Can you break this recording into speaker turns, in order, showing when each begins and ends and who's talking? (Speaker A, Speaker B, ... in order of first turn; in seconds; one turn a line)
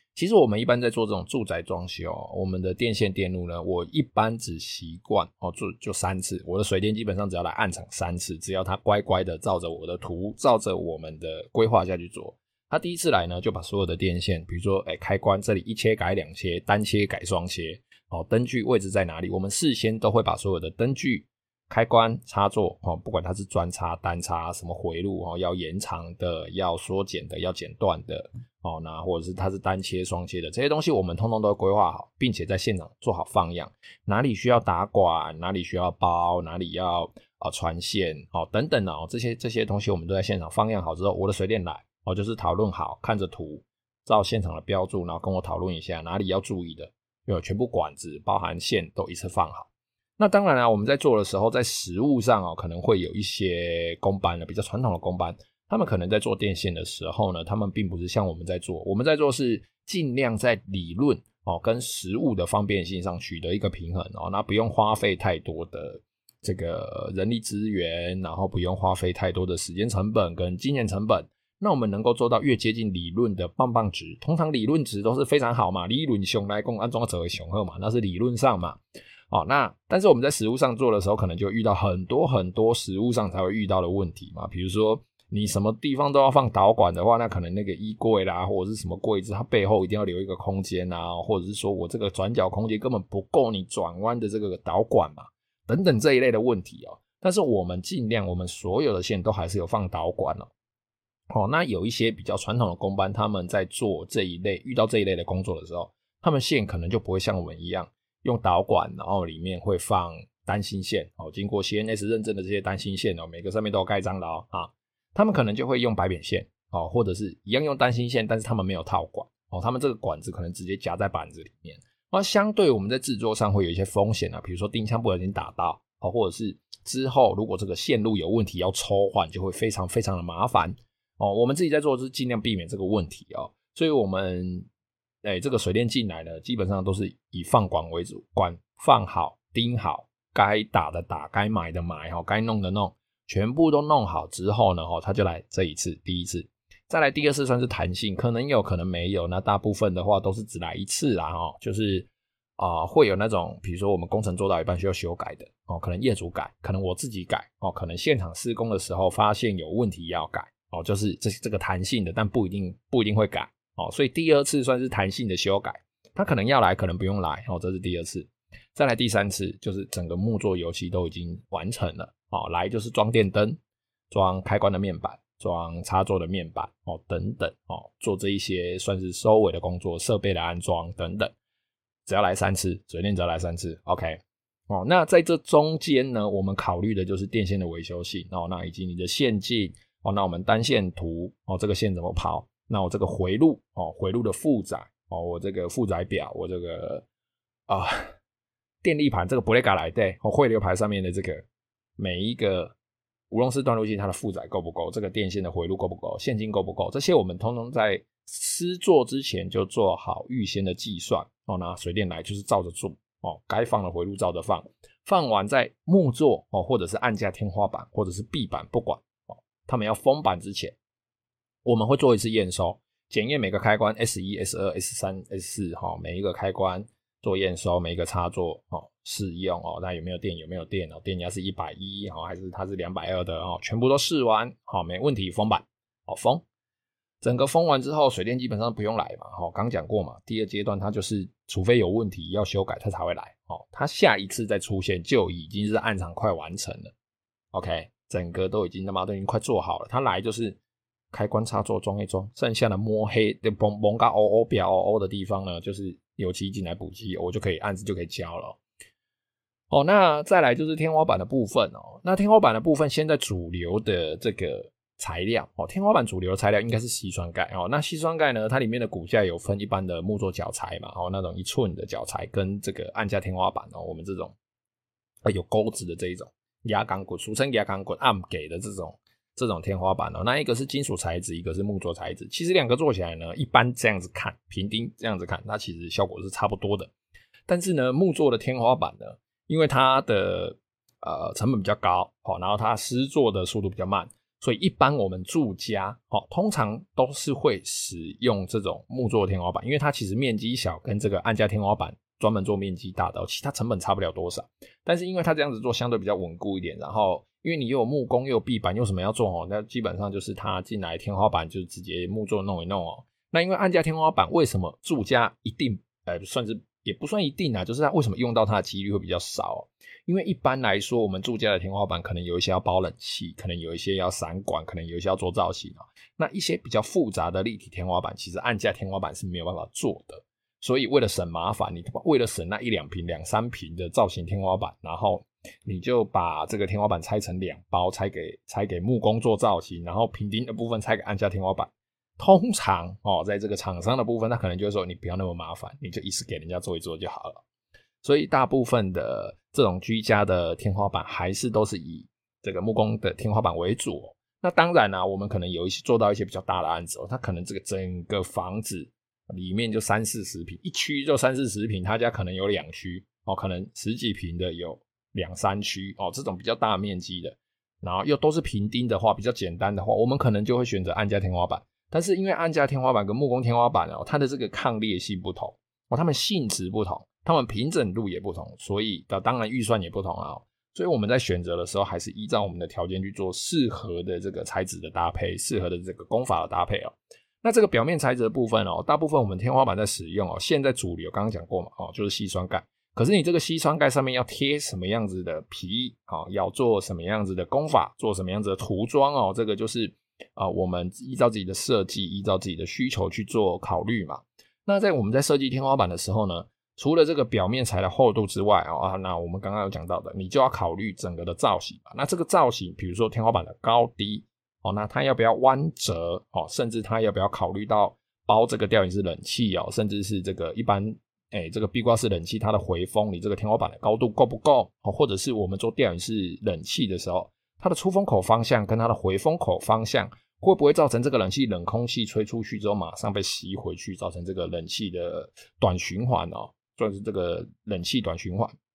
Speaker A: 0.1-78.8
Speaker A: 79.3-100.5
Speaker A: 101.3-134.7
Speaker A: 135.2-173.6
Speaker A: 174.1-181.3
Speaker A: 182.1-197.1
Speaker A: 197.7-198.1
Speaker A: 198.8-201.4
Speaker A: 202.0-202.8
Speaker A: 203.3-220.8
Speaker A: 221.7-236.4
Speaker A: 237.2-246.9
Speaker A: 247.5-250.6
Speaker A: 251.1-258.6
Speaker A: 259.7-274.4
Speaker A: 275.2-286.9
Speaker A: 287.5-347.4
Speaker A: 348.0-438.5